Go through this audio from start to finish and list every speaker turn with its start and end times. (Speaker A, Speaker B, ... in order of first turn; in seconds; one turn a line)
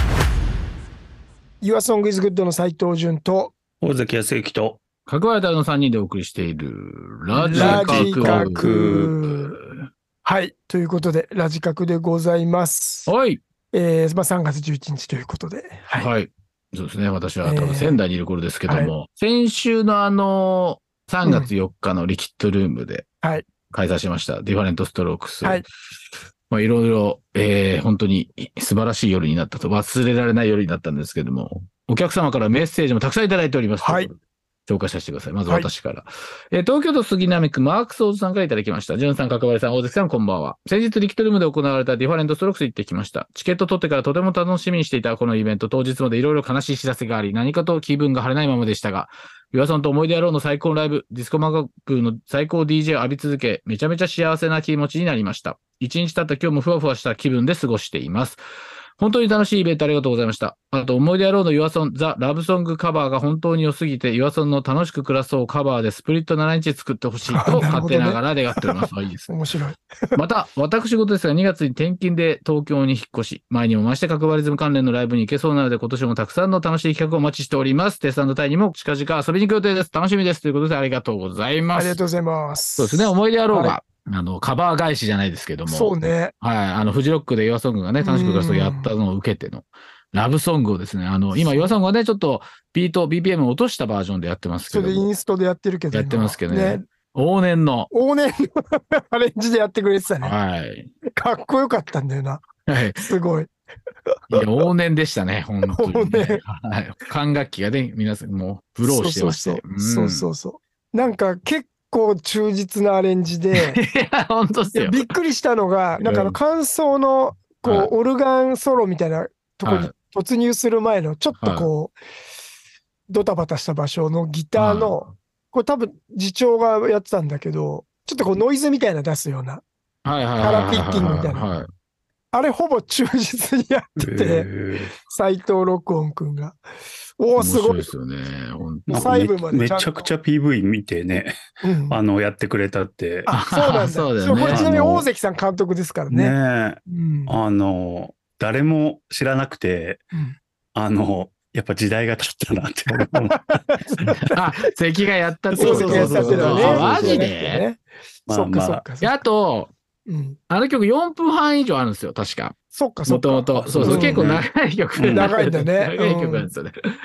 Speaker A: 1.6-3.5
Speaker B: 3.8-4.8
Speaker C: 5.1-9.8
Speaker A: 7.3-9.6
Speaker B: 7.5-9.1
Speaker A: 10.2-13.1
Speaker C: 13.1-13.4
Speaker A: 13.7-16.1
Speaker C: 15.9-23.1
Speaker A: 17.4-18.0
Speaker A: 18.7-18.9
Speaker A: 21.2-21.5
Speaker C: 23.7-25.6
Speaker C: 26.5-58.4
Speaker A: 33.8-34.1
Speaker C: 59.0-69.3
Speaker A: 67.3-70.2
Speaker C: 70.1-82.0
Speaker A: 81.7-83.8
Speaker C: 82.8-95.1
Speaker A: 85.7-86.3
Speaker A: 88.0-88.9
Speaker A: 91.3-91.7
Speaker A: 94.7-96.8
Speaker C: 95.9-97.9
Speaker A: 97.9-100.3
Speaker C: 100.2-100.9
Speaker A: 101.0-102.4
Speaker C: 102.7-103.1
Speaker A: 103.0-103.5
Speaker C: 104.3-110.3
Speaker A: 105.7-106.4
Speaker A: 108.8-113.8
Speaker C: 113.5-115.1
Speaker A: 114.7-121.9
Speaker C: 116.0-116.4
Speaker C: 117.6-117.9
Speaker C: 119.6-119.9
Speaker C: 121.4-121.7
Speaker A: 123.1-129.6
Speaker C: 124.5-125.0
Speaker C: 130.0-131.7
Speaker A: 130.4-131.5
Speaker A: 132.3-134.5
Speaker B: 134.0-134.9
Speaker A: 135.1-136.6
Speaker A: 137.2-137.9
Speaker C: 137.3-139.1
Speaker B: 138.9-141.3
Speaker A: 138.9-140.1
Speaker A: 141.6-142.0
Speaker B: 141.9-143.3
Speaker A: 143.3-146.3
Speaker C: 143.3-144.6
Speaker B: 144.3-145.1
Speaker B: 146.1-150.0
Speaker A: 146.9-147.4
Speaker B: 150.7-154.1
Speaker A: 152.9-154.4
Speaker C: 154.3-157.6
Speaker B: 155.5-157.3
Speaker A: 155.6-159.2
Speaker B: 158.3-158.8
Speaker C: 159.0-159.7
Speaker A: 160.1-160.4
Speaker C: 160.5-162.5
Speaker A: 162.7-164.3
Speaker C: 163.1-166.7
Speaker B: 163.6-164.4
Speaker B: 165.0-165.4
Speaker A: 165.1-166.5